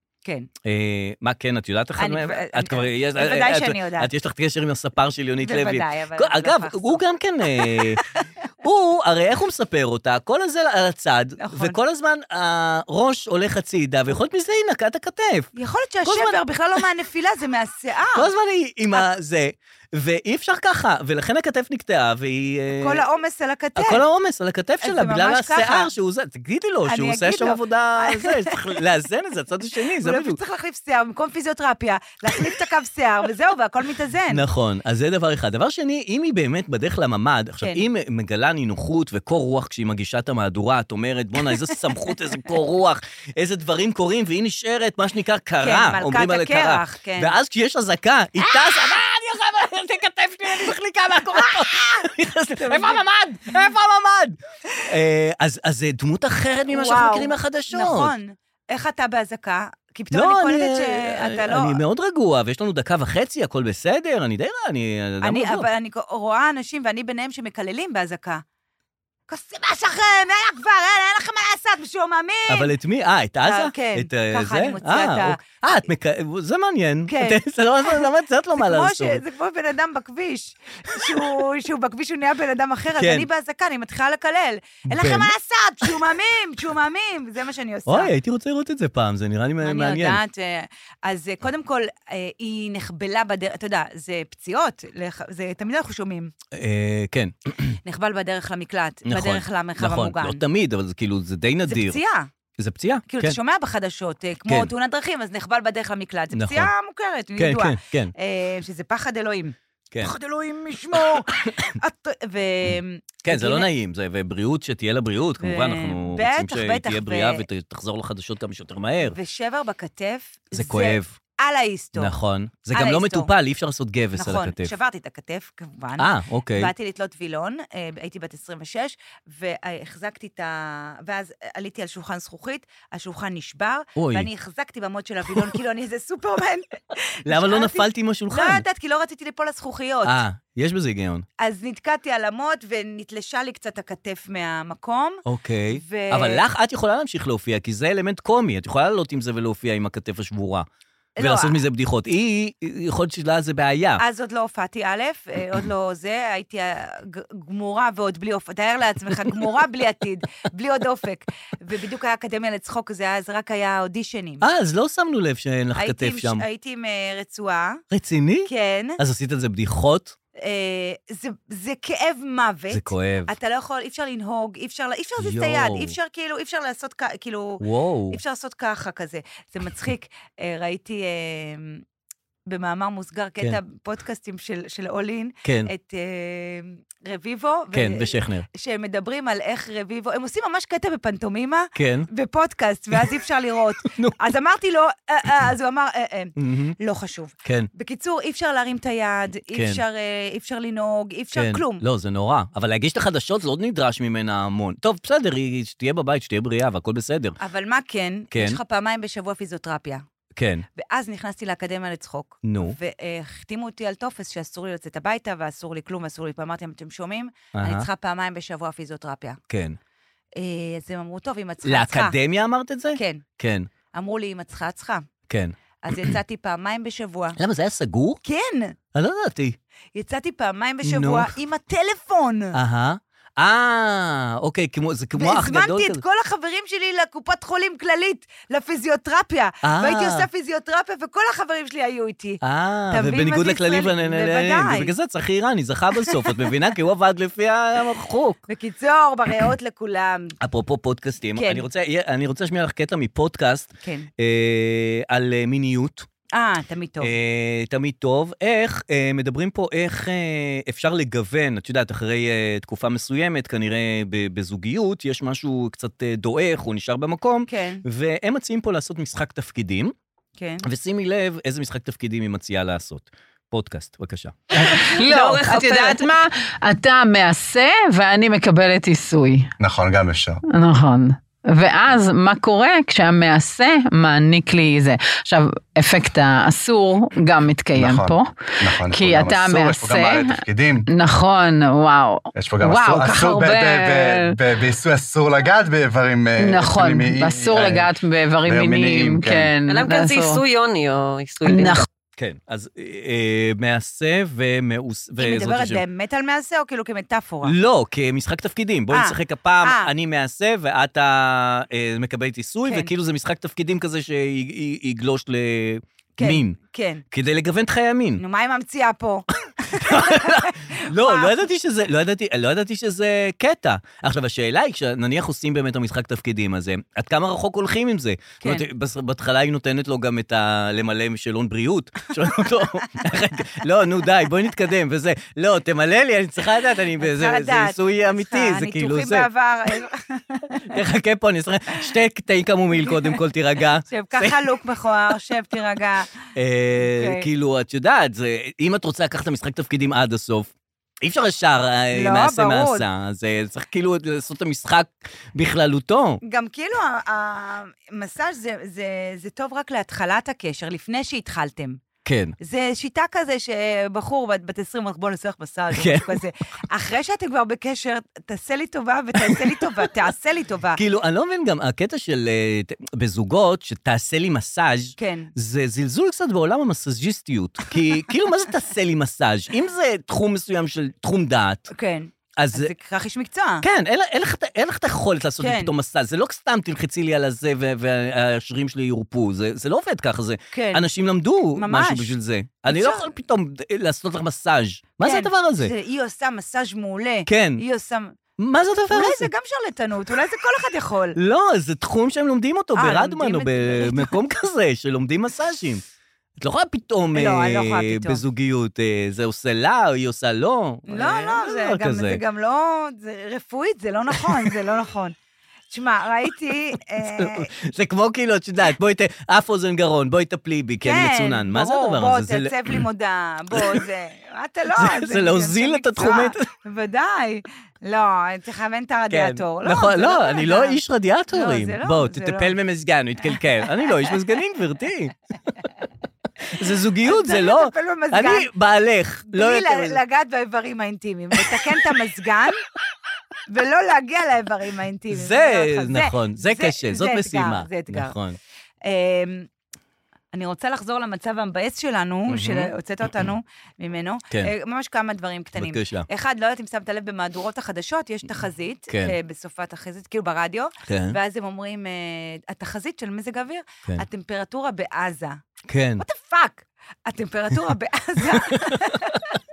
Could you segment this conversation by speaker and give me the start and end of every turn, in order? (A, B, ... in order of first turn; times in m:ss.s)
0:00.2-0:00.5 A
0:00.6-0:08.0 B
0:02.0-0:04.1 A
0:05.4-0:08.3 A
0:08.6-0:15.5 B
0:11.4-0:11.8 A
0:15.6-0:18.3 A
0:16.0-0:16.8 B
0:18.2-0:23.0 B
0:22.8-0:24.0 A
0:23.8-0:30.4 B
0:24.8-0:25.9 A
0:26.9-0:28.7 A
0:30.0-0:34.4 A
0:34.3-0:58.1 B
0:45.6-0:47.4 A
0:48.5-0:48.8 A
0:51.4-0:51.8 A
0:52.6-0:53.0 A
0:56.7-1:01.8 A
1:00.1-1:05.7 B
1:05.2-1:08.4 A
1:09.3-1:12.7 A
1:12.5-1:19.2 B
1:13.4-1:15.4 A
1:17.1-1:18.0 A
1:18.6-1:28.1 A
1:21.0-1:21.2 B
1:23.0-1:23.3 B
1:24.9-1:26.0 B
1:27.9-1:30.2 B
1:29.6-1:36.3 A
1:36.5-1:37.8 B
1:37.8-1:40.4 A
1:39.1-1:42.0 B
1:41.6-1:42.3 A
1:42.6-1:43.4 B
1:43.1-1:53.7 A
1:46.3-1:46.7 B
1:47.4-1:48.1 B
1:51.0-1:51.7 B
1:53.2-1:59.2 B
1:55.4-1:57.4 A
1:59.0-2:02.1 A
2:00.5-2:01.2 B
2:02.0-2:04.7 B
2:02.7-2:03.3 A
2:04.2-2:20.2 A
2:06.0-2:06.7 B
2:14.0-2:14.3 B
2:17.3-2:18.6 B
2:20.0-2:21.3 B
2:21.4-2:26.4 A
2:25.3-2:30.7 B
2:31.2-2:31.6 A
2:31.2-2:34.0 B
2:34.0-2:44.4 A
2:44.4-2:46.4 B
2:45.8-2:47.8 A
2:47.9-2:50.2 B
2:48.5-2:49.0 A
2:50.4-3:01.8 A
2:52.7-2:53.3 B
2:55.2-2:56.0 B
2:57.6-2:58.2 B
3:02.5-3:21.8 A
3:05.4-3:05.7 B
3:07.7-3:08.5 B
3:11.8-3:12.1 B
3:13.9-3:14.2 B
3:16.4-3:16.8 B
3:17.4-3:17.7 B
3:19.5-3:19.8 B
3:21.3-3:27.4 B
3:27.4-3:30.0 A
3:28.3-3:28.6 B
3:30.4-3:30.6 B
3:30.8-3:39.4 A
3:32.4-3:32.8 B
3:37.5-3:37.9 B
3:39.5-3:39.8 B
3:40.4-3:42.2 A
3:41.6-3:43.7 B
3:43.0-3:43.2 A
3:43.9-3:45.1 A
3:45.3-3:46.1 B
3:45.8-3:47.4 A
3:47.4-3:48.2 B
3:48.2-3:48.8 A
3:48.9-3:49.6 B
3:50.0-3:52.6 A
3:50.8-3:51.3 B
3:52.5-3:56.0 B
3:55.2-4:04.9 A
3:59.6-4:00.3 B
4:02.4-4:08.4 B
4:06.0-4:06.5 A
4:08.5-4:10.4 A
4:10.4-4:16.1 B
4:11.4-4:11.6 A
4:13.8-4:14.1 A
4:16.3-4:17.1 A
4:17.0-4:29.9 B
4:27.5-4:27.8 A
4:30.4-4:30.7 A
4:30.6-4:34.7 B
4:34.6-4:39.5 C
4:34.6-4:36.0 A
4:39.6-4:40.4 D
4:40.5-4:54.4 C
4:47.7-4:50.9 D
4:52.4-4:57.9 D
4:56.4-5:00.4 C
4:58.4-4:59.5 D
4:59.6-5:01.8 E
5:01.4-5:01.9 C
5:02.2-5:05.8 B
5:05.2-5:07.6 A
5:07.4-5:16.6 B
5:08.9-5:09.9 A
5:12.6-5:12.9 A
5:16.2-5:17.0 A
5:17.1-5:18.2 B
5:18.2-5:21.4 A
5:19.7-5:39.3 B
5:28.4-5:28.7 A
5:37.0-5:40.8 A
5:40.7-5:44.4 B
5:42.8-5:43.2 A
5:43.9-5:46.1 A
5:46.4-5:56.2 B
5:46.8-5:47.3 A
5:51.9-5:52.9 A
5:56.2-6:01.8 A
6:02.0-6:02.4 B
6:02.4-6:10.8 A
6:05.7-6:06.2 B
6:09.2-6:09.6 B
6:10.8-6:21.7 B
6:15.0-6:15.3 A
6:21.7-6:23.6 A
6:22.4-6:22.7 B
6:23.6-6:35.7 B
6:25.4-6:25.7 A
6:30.5-6:30.9 A
6:31.6-6:32.2 A
6:32.7-6:33.1 A
6:35.0-6:38.2 A
6:37.3-6:37.6 B
6:38.4-6:39.3 B
6:38.9-6:41.2 A
6:41.2-6:45.8 B
6:42.8-6:44.2 A
6:46.4-6:52.2 B
6:47.1-6:48.2 A
6:50.9-6:55.2 A
6:55.7-6:57.5 A
6:57.0-7:02.8 B
7:00.8-7:10.8 A
7:03.5-7:03.8 B
7:04.7-7:06.5 B
7:09.1-7:15.1 B
7:11.3-7:12.6 A
7:16.5-7:20.0 B
7:17.0-7:18.5 A
7:19.3-7:22.6 A
7:21.3-7:21.7 B
7:23.5-7:28.1 A
7:25.1-7:28.4 B
7:28.8-7:29.5 A
7:30.3-7:45.4 A
7:32.3-7:32.7 B
7:35.6-7:36.1 B
7:38.9-7:39.2 B
7:40.9-7:41.2 B
7:45.7-7:46.0 B
7:46.0-7:49.4 A
7:48.3-7:49.2 B